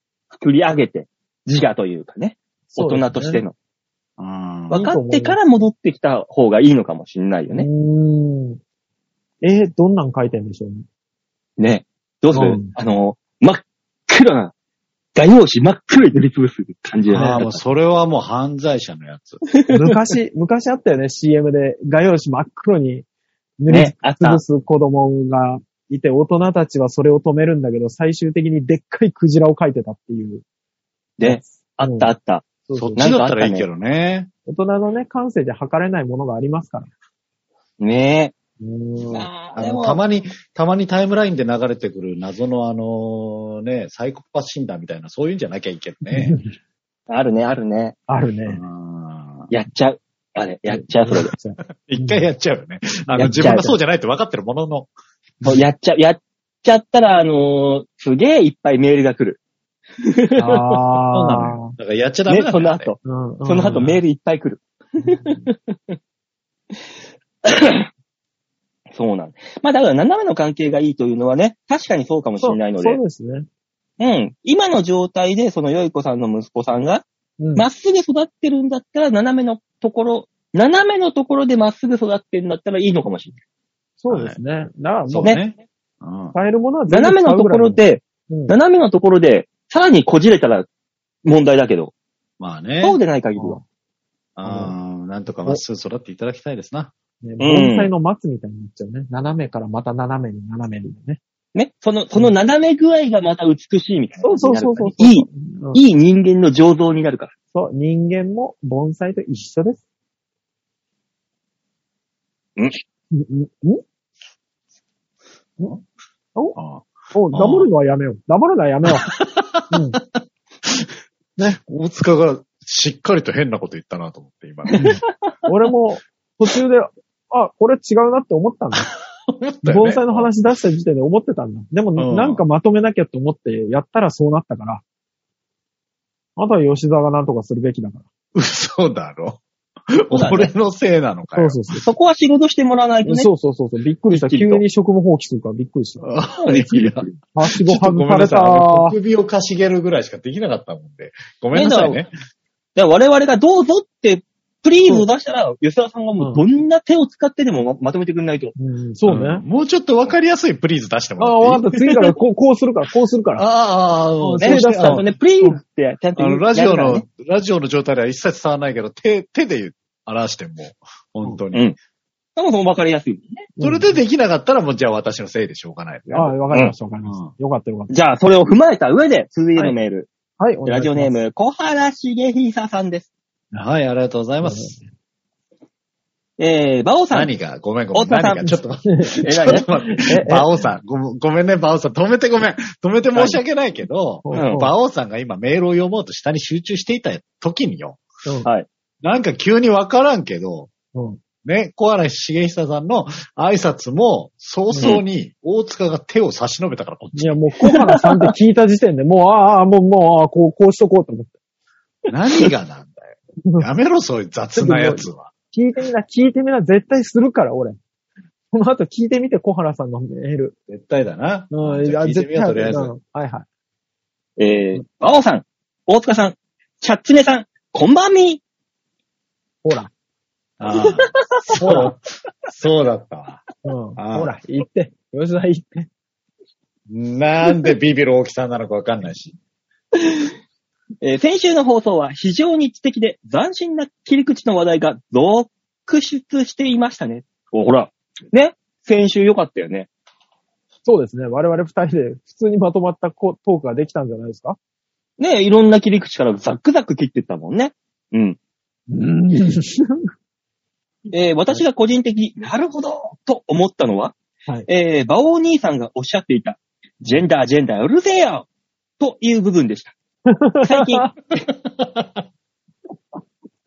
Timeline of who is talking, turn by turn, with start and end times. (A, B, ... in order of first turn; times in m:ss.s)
0:00.3-0:03.5 A
0:02.7-0:03.4 B
0:04.2-0:04.9 C
0:04.7-0:07.7 A
0:04.7-0:05.4 B
0:07.5-0:08.6 B
0:09.4-0:10.8 B
0:11.6-0:14.5 A
0:12.3-0:12.7 B
0:15.2-0:17.6 A
0:17.1-0:19.4 C
0:19.5-0:20.1 A
0:19.7-0:23.0 B
0:23.6-0:30.4 B
0:23.7-0:24.4 A
0:31.2-0:32.4 A
0:31.2-0:32.1 B
0:32.7-0:33.1 B
0:32.7-0:34.3 C
0:33.0-0:33.7 A
0:34.5-0:36.9 B
0:37.8-0:38.3 A
0:38.6-0:39.3 B
0:39.1-0:40.0 A
0:39.5-0:46.4 C
0:46.1-0:46.6 B
0:47.1-0:48.0 A
0:48.1-0:48.6 B
0:48.5-0:49.5 C
0:49.5-0:51.3 A
0:50.7-0:52.2 B
0:51.8-0:54.9 C
0:53.2-0:53.8 A
0:53.2-0:53.5 B
0:55.4-0:59.4 A
1:00.0-1:00.8 A
1:00.4-1:01.8 B
1:01.1-1:02.9 C
1:02.3-1:06.0 A
1:03.0-1:04.0 B
1:05.0-1:05.4 B
1:07.4-1:07.9 A
1:08.9-1:13.0 A
1:12.4-1:13.5 B
1:14.0-1:17.0 A
1:17.4-1:17.7 B
1:17.6-1:23.4 A
1:24.0-1:25.4 B
1:24.1-1:24.4 C
1:25.1-1:26.4 C
1:26.3-1:28.6 B
1:26.9-1:30.7 A
1:31.2-1:31.9 A
1:32.4-1:33.0 C
1:32.8-1:33.6 A
1:33.4-1:33.6 B
1:34.4-1:36.9 C
1:34.4-1:34.7 B
1:37.2-1:41.2 B
1:37.4-1:37.9 A
1:41.6-1:47.3 A
1:44.2-1:45.8 B
1:47.5-1:49.8 B
1:53.1-1:53.8 B
1:56.6-1:57.7 C
1:57.1-1:59.1 B
1:59.1-2:00.9 C
1:59.7-2:00.0 B
2:01.6-2:04.9 C
2:04.7-2:05.3 A
2:04.8-2:08.9 B
2:09.3-2:10.3 C
2:09.6-2:14.8 B
2:12.0-2:12.4 C
2:16.4-2:18.1 B
2:18.4-2:21.6 C
2:20.1-2:20.5 A
2:21.4-2:21.9 B
2:21.8-2:23.3 A
2:23.1-2:26.1 B
2:24.1-2:24.6 A
2:26.0-2:32.1 C
2:26.4-2:27.2 A
2:27.3-2:29.0 B
2:31.5-2:32.0 A
2:32.8-2:38.6 A
2:38.6-2:39.4 B
2:39.1-2:41.8 C
2:41.2-2:43.5 B
2:43.4-2:45.1 C
2:44.2-2:45.6 B
2:44.4-2:47.0 A
2:46.2-2:51.7 C
2:52.4-2:53.5 A
2:53.6-2:54.0 B
2:53.6-2:56.4 C
2:56.1-2:57.9 B
2:57.0-2:57.3 C
2:57.9-3:00.1 A
3:00.4-3:01.2 B
3:00.7-3:03.1 A
3:03.5-3:04.8 C
3:04.4-3:04.8 B
3:06.4-3:07.3 A
3:07.1-3:18.0 C
3:07.9-3:08.5 A
3:08.4-3:10.5 B
3:09.2-3:09.6 A
3:13.2-3:13.4 A
3:14.2-3:14.7 B
3:14.3-3:14.6 A
3:19.0-3:20.7 C
3:20.9-3:21.2 B
3:21.4-3:27.5 C
3:24.7-3:25.0 B
3:27.2-3:31.3 B
3:32.1-3:35.3 C
3:34.6-3:37.8 B
3:38.5-3:40.5 B
3:40.7-3:42.9 C
3:41.5-3:43.5 B
3:44.4-3:48.4 A
3:49.6-3:49.9 B
3:50.6-3:53.4 C
3:51.1-3:51.8 A
3:51.6-3:51.9 B
3:53.6-3:55.9 B
3:54.0-3:54.3 C
3:56.9-3:59.4 C
4:01.0-4:09.9 A
4:10.9-4:14.6 B
4:15.2-4:18.4 A
4:18.9-4:20.1 B
4:21.1-4:24.2 A
4:24.7-4:28.5 A
4:29.0-4:29.9 A
4:30.3-4:31.1 B
4:30.6-4:31.5 A
4:31.7-4:32.2 C